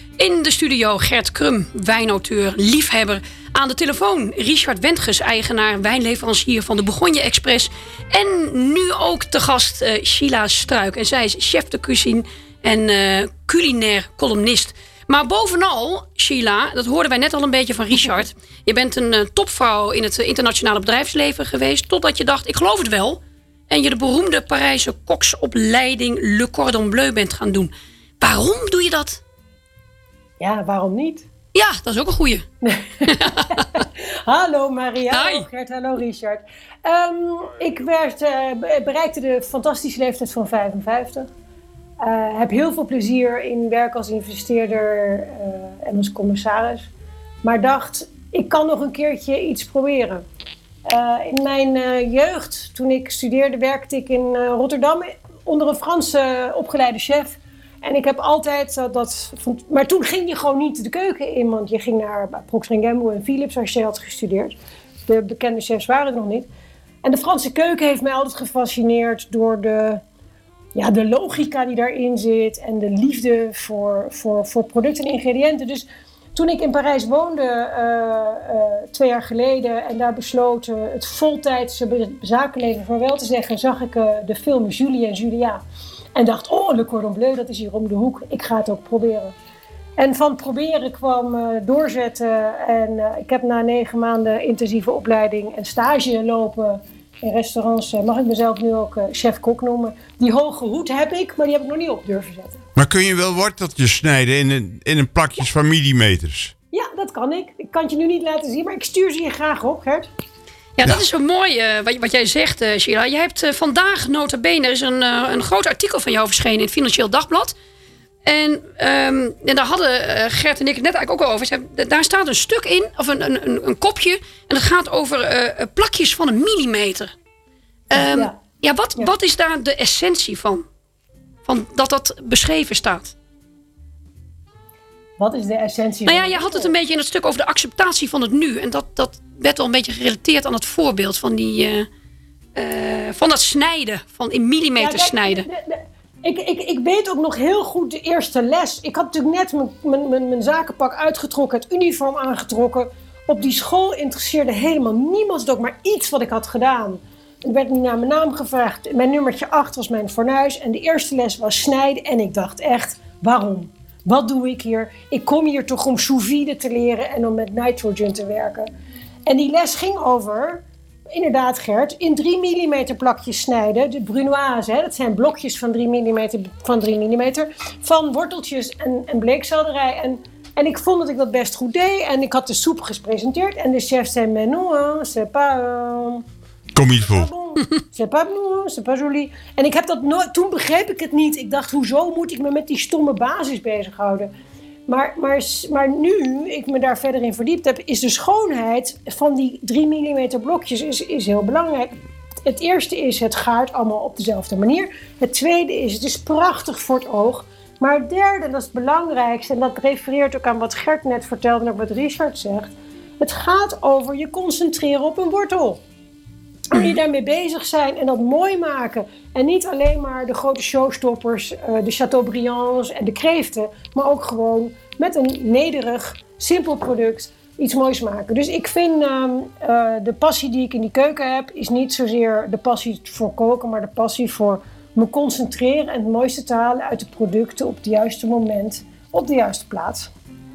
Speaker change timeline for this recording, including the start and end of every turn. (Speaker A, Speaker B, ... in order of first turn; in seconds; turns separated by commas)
Speaker A: 0.2-29.2, Speaker B: 30.4-31.3, Speaker A: 31.5-32.5, Speaker B: 32.6-41.3, Speaker A: 33.1-33.8, Speaker A: 35.1-35.5, Speaker B: 42.0-46.9, Speaker B: 47.4-50.2, Speaker B: 50.9-66.5, Speaker B: 67.0-70.0, Speaker B: 70.8-85.6, Speaker B: 86.2-89.3, Speaker B: 90.0-102.6, Speaker C: 102.8-106.5, Speaker B: 106.7-110.1, Speaker A: 110.8-117.5, Speaker A: 118.2-127.1, Speaker A: 127.9-130.7, Speaker B: 127.9-128.4, Speaker A: 131.4-133.1, Speaker B: 135.2-136.7, Speaker A: 136.1-141.9, Speaker A: 142.6-145.5, Speaker B: 144.8-168.7, Speaker B: 169.3-186.2, Speaker C: 186.7-187.3, Speaker B: 187.0-194.3, Speaker B: 194.9-215.8, Speaker B: 216.7-240.1